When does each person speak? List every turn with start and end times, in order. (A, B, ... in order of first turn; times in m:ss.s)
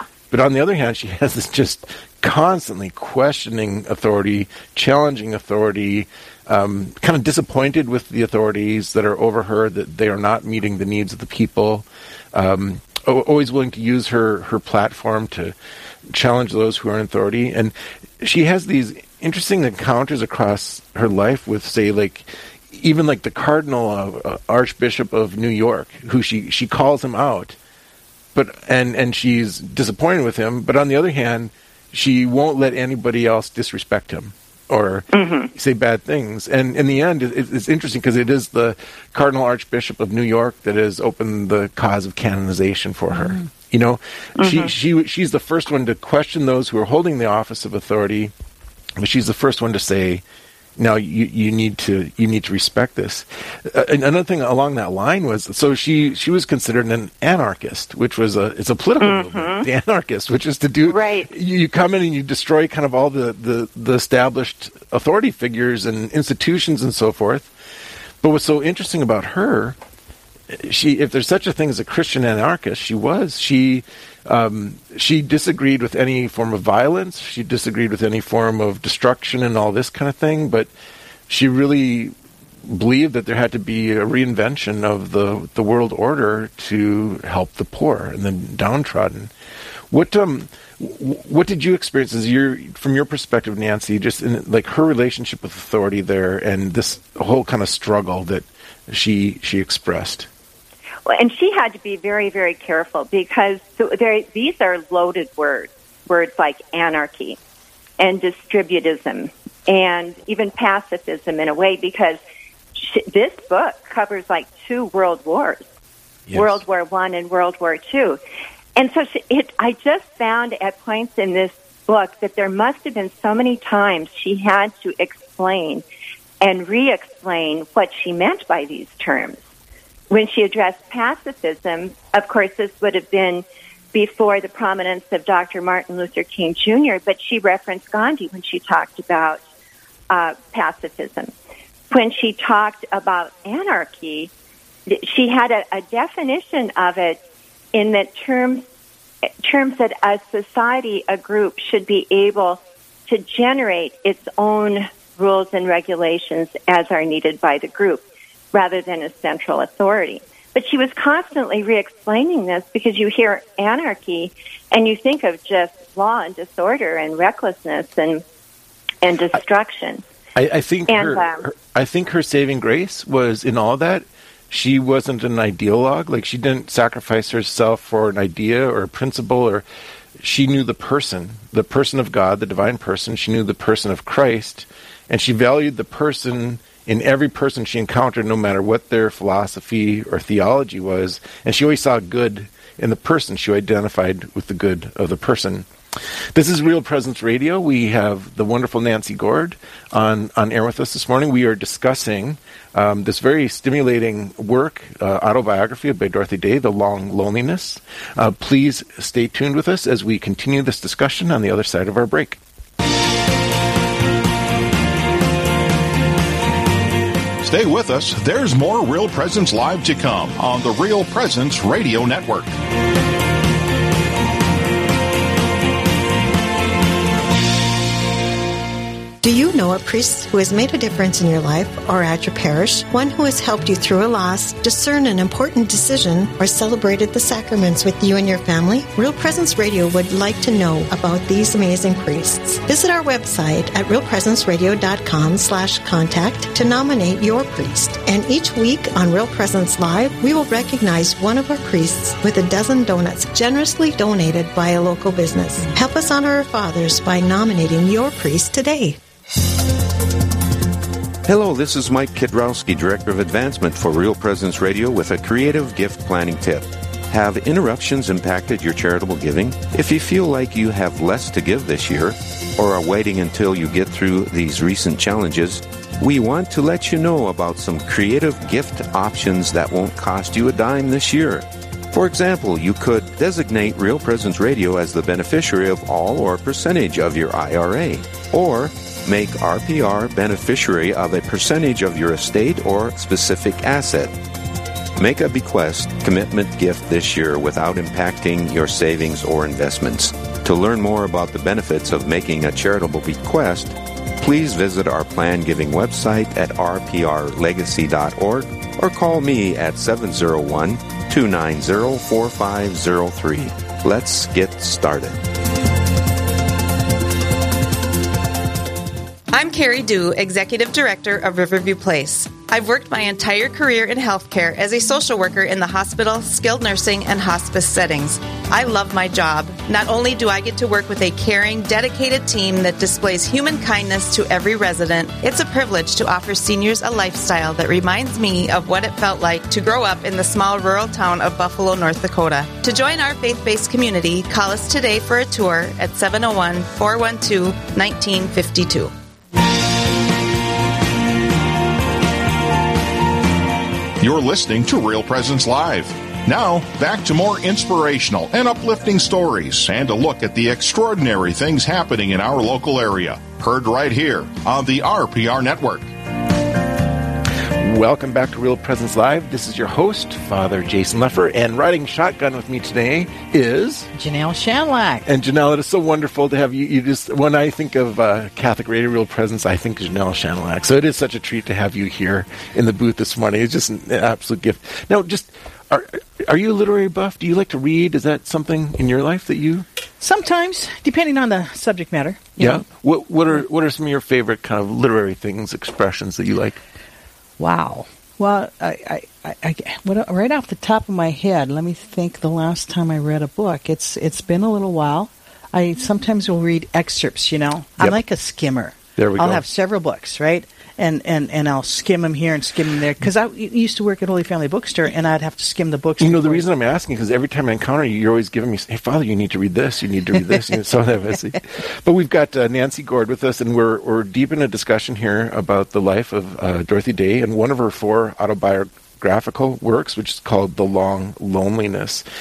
0:00.3-0:15.6 A
0:16.1-0:27.6 A
0:28.3-0:48.3 A
0:35.1-0:35.5 B
0:44.4-0:44.7 B
0:49.0-0:50.2 A
0:50.8-1:07.5 A
0:59.0-0:59.7 B
1:00.9-1:01.3 B
1:08.2-1:09.8 A
1:10.5-1:20.7 A
1:21.3-1:22.1 A
1:22.7-1:29.3 A
1:29.9-1:40.3 A
1:41.1-1:47.4 B
1:48.0-1:52.2 B
1:52.8-1:55.7 B
1:56.3-1:56.6 A
1:56.3-1:58.2 B
1:58.8-2:05.8 B
2:06.4-2:09.4 B
2:10.1-2:19.4 B
2:20.1-2:21.3 B
2:21.9-2:24.3 B
2:24.9-2:27.2 B
2:27.7-2:28.6 B
2:29.4-2:48.2 B
2:49.0-2:50.0 B
2:50.4-2:59.6 A
2:50.9-2:51.4 B
3:00.2-3:15.7 A
3:16.3-3:32.4 A
3:37.4-3:42.5 C
3:49.2-4:19.0 D
4:21.2-4:54.2 E
4:55.0-5:15.2 E
5:19.3-5:48.9 F
5:54.0-6:05.9 C
6:07.5-6:13.9 A
6:13.9-6:15.0 G
6:15.0-6:29.7 A
6:30.0-6:32.7 G
6:32.4-6:36.6 A
6:37.4-6:56.4 G
6:49.0-6:49.4 A
6:56.0-7:12.0 A